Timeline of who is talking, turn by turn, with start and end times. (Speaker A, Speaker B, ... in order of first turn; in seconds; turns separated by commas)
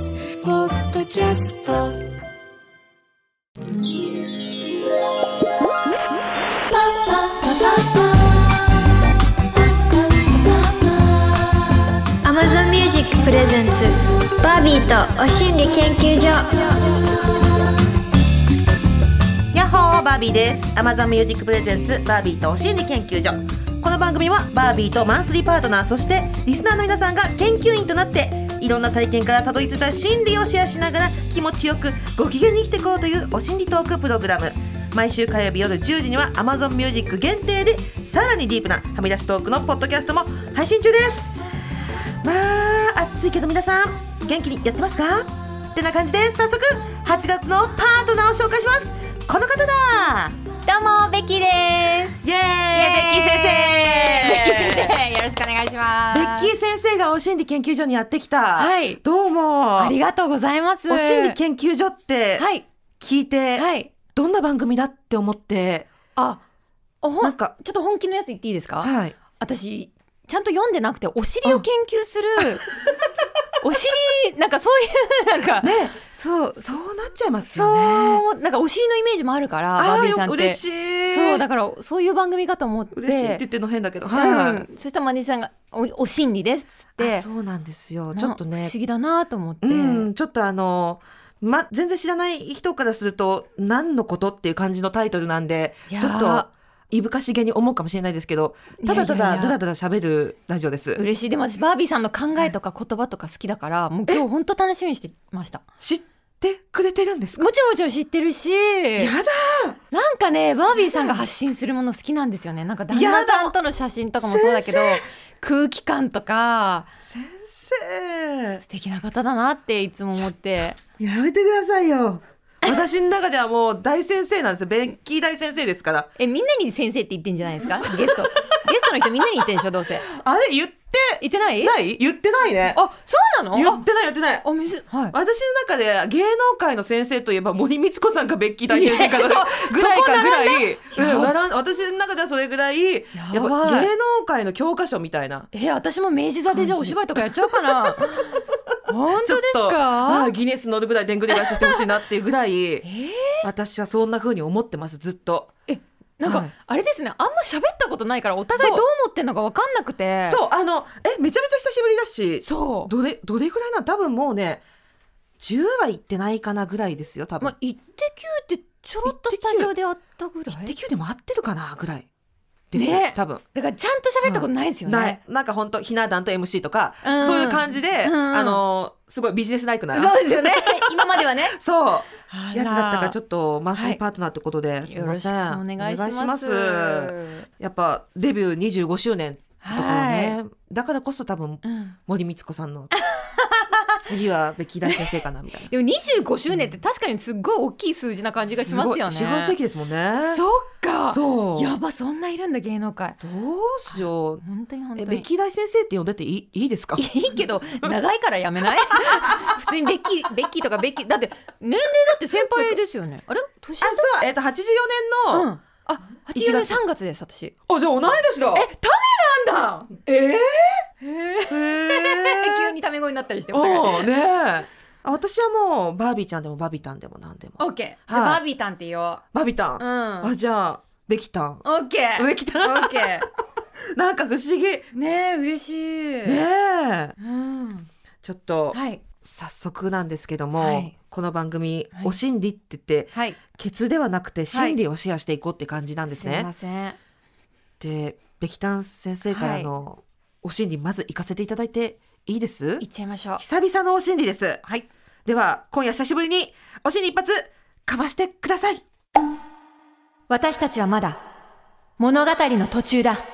Speaker A: 0.7-1.7, Speaker A: 12.2-16.8, Speaker B: 19.5-41.3, Speaker B: 42.2-50.4, Speaker C: 50.7-52.2, Speaker B: 52.2-54.9, Speaker C: 52.7-56.5, Speaker B: 56.1-60.0, Speaker C: 58.6-59.0, Speaker C: 59.8-61.4, Speaker B: 60.9-62.5, Speaker C: 62.4-62.7, Speaker B: 63.0-65.9, Speaker C: 63.5-63.9, Speaker C: 66.2-66.4, Speaker C: 67.0-72.7, Speaker B: 67.2-67.5, Speaker B: 68.8-69.2, Speaker C: 73.6-76.7, Speaker B: 75.6-75.9, Speaker B: 76.5-78.2, Speaker C: 77.5-83.4, Speaker B: 79.8-81.4, Speaker B: 82.9-84.7, Speaker C: 84.1-87.2, Speaker B: 87.0-88.7, Speaker C: 88.1-90.1, Speaker B: 89.6-101.0, Speaker C: 95.9-96.5, Speaker C: 98.8-99.6, Speaker C: 101.0-105.6, Speaker B: 105.8-107.4, Speaker C: 107.3-109.1, Speaker B: 109.0-109.8, Speaker C: 109.9-116.9, Speaker B: 110.8-111.2, Speaker B: 112.9-113.5, Speaker B: 114.2-115.0, Speaker B: 117.0-118.6, Speaker C: 118.6-120.8, Speaker B: 121.0-126.1, Speaker C: 126.2-130.1, Speaker B: 127.6-128.3, Speaker B: 130.1-132.8, Speaker C: 131.2-131.7, Speaker C: 132.7-133.8, Speaker B: 133.5-134.4, Speaker C: 134.4-135.2, Speaker B: 135.1-145.5, Speaker C: 138.7-141.3, Speaker C: 143.1-143.9, Speaker C: 145.5-150.3, Speaker B: 146.5-148.0, Speaker B: 149.2-152.8, Speaker C: 151.3-151.8, Speaker C: 152.8-153.5, Speaker B: 153.4-155.5, Speaker C: 155.7-160.4, Speaker B: 156.2-156.5, Speaker B: 158.6-158.8, Speaker B: 160.3-164.6, Speaker C: 162.4-162.9, Speaker B: 165.4-167.5, Speaker C: 167.4-170.7, Speaker B: 169.0-169.7, Speaker B: 170.5-172.1, Speaker B: 172.7-173.4, Speaker C: 172.7-175.2, Speaker B: 174.2-192.9, Speaker C: 177.0-178.6, Speaker C: 179.9-181.6, Speaker C: 182.3-183.2, Speaker C: 183.7-184.0, Speaker C: 184.9-187.5, Speaker C: 189.6-190.4, Speaker C: 191.6-191.9, Speaker C: 192.9-194.0, Speaker B: 194.0-195.7, Speaker C: 194.8-195.2, Speaker C: 195.7-199.6, Speaker B: 198.4-200.4, Speaker C: 200.3-203.2, Speaker B: 201.1-201.7, Speaker B: 203.2-204.4, Speaker C: 204.4-205.2, Speaker B: 205.0-207.1, Speaker C: 206.9-214.1, Speaker B: 208.9-209.5, Speaker B: 212.3-212.8, Speaker B: 213.8-215.5, Speaker C: 215.3-217.5, Speaker B: 216.3-216.8, Speaker B: 217.7-218.7, Speaker C: 218.5-219.9, Speaker B: 220.0-220.9, Speaker C: 221.0-224.1, Speaker B: 221.5-222.7, Speaker B: 223.5-228.4, Speaker C: 227.6-229.2, Speaker B: 229.3-231.6, Speaker C: 229.8-230.3, Speaker C: 231.6-233.3, Speaker B: 232.2-233.2, Speaker B: 233.9-234.9, Speaker C: 234.9-236.4, Speaker B: 236.2-237.2, Speaker C: 237.2-237.9, Speaker B: 238.2-246.5, Speaker C: 238.7-239.0, Speaker C: 240.6-240.9, Speaker C: 243.1-243.4, Speaker C: 244.5-244.8, Speaker C: 246.1-247.0, Speaker B: 247.8-252.8, Speaker C: 249.3-249.7, Speaker C: 252.8-253.4, Speaker B: 253.4-254.6, Speaker B: 255.2-258.8, Speaker C: 260.3-261.2, Speaker C: 262.0-263.2